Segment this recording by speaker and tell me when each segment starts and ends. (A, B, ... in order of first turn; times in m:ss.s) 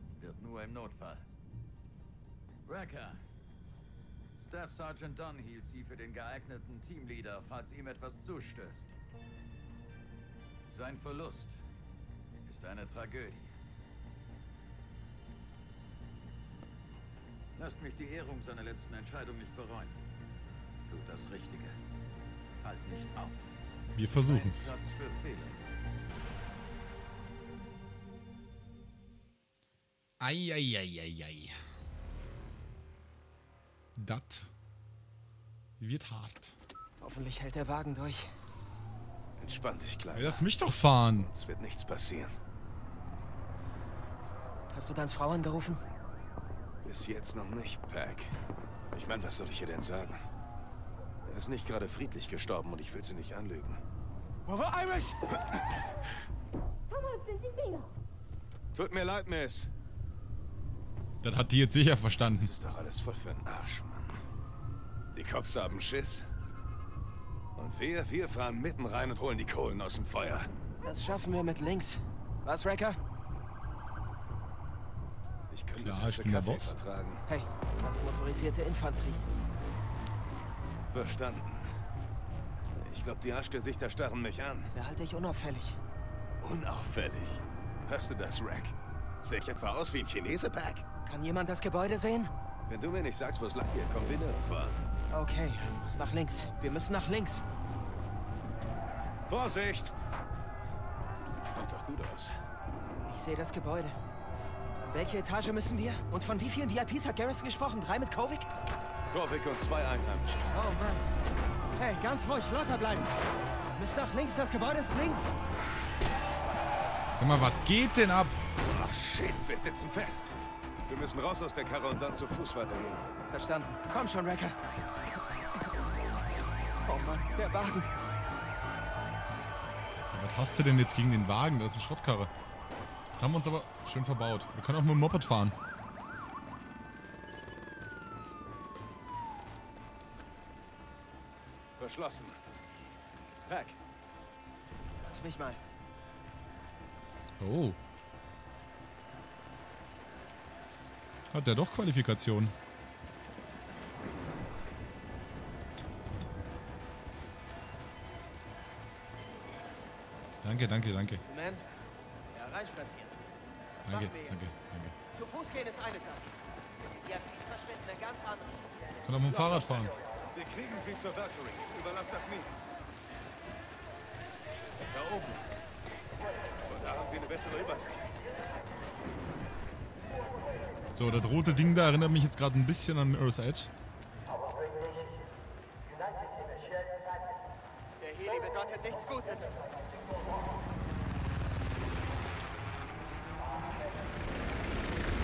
0:00.2-0:01.3 A
0:02.6-0:03.2 A
0:04.4-0:09.0 A
0:10.7-0:11.6 A
0:12.5-0:13.5 A
0:17.6-0:20.0 A
0:20.9-0:21.8 A
0:22.6-0:23.5 A
0:24.0-0:24.7 B
0:24.2-0:26.0 A
0:30.2-0:31.6 B
0:34.0-0:34.5 B
0:35.8-0:36.6 B
0:37.0-0:38.3 C
0:39.4-0:40.5 D
0:40.1-0:41.3 B
0:41.1-0:42.3 D
0:44.7-0:45.8 C
0:46.8-0:48.4 D
0:48.9-0:50.2 D
0:51.3-0:53.8 D
0:54.5-0:55.3 C
0:58.7-0:59.7 D
1:01.2-1:02.5 B
1:02.4-1:04.2 D
1:05.1-1:06.3 D
1:07.6-1:10.5 D
1:10.8-1:13.0 C
1:15.5-1:17.2 D
1:15.8-1:16.8 B
1:17.3-1:19.3 C
1:20.9-1:21.7 D
1:22.8-1:24.7 D
1:24.7-1:25.8 C
1:26.4-1:30.8 D
1:31.0-1:32.3 C
1:32.7-1:34.8 D
1:35.1-1:37.4 C
1:39.3-1:40.0 D
1:41.5-1:42.3 D
1:43.0-1:44.0 C
1:44.8-1:48.5 C
1:49.1-1:50.5 D
1:50.5-1:51.0 C
1:51.8-1:53.1 C
1:53.8-1:55.4 C
1:57.1-1:58.4 B
1:58.6-2:03.0 D
2:03.3-2:04.6 C
2:06.9-2:07.9 C
2:10.1-2:12.3 B
2:13.2-2:15.6 B
2:21.8-2:22.4 D
2:23.5-2:23.8 D
2:25.0-2:25.6 C
2:27.4-2:27.8 B
2:31.3-2:32.6 B
2:40.4-2:41.2 B
2:41.2-2:41.6 C
2:42.3-2:43.2 C
2:43.8-2:45.0 B
2:43.9-2:44.5 C
2:45.1-2:48.6 C
2:49.0-2:50.0 B
2:49.3-2:52.6 D
2:54.8-2:55.4 D
2:56.7-2:58.1 D
3:00.9-3:03.7 B
3:08.0-3:09.6 C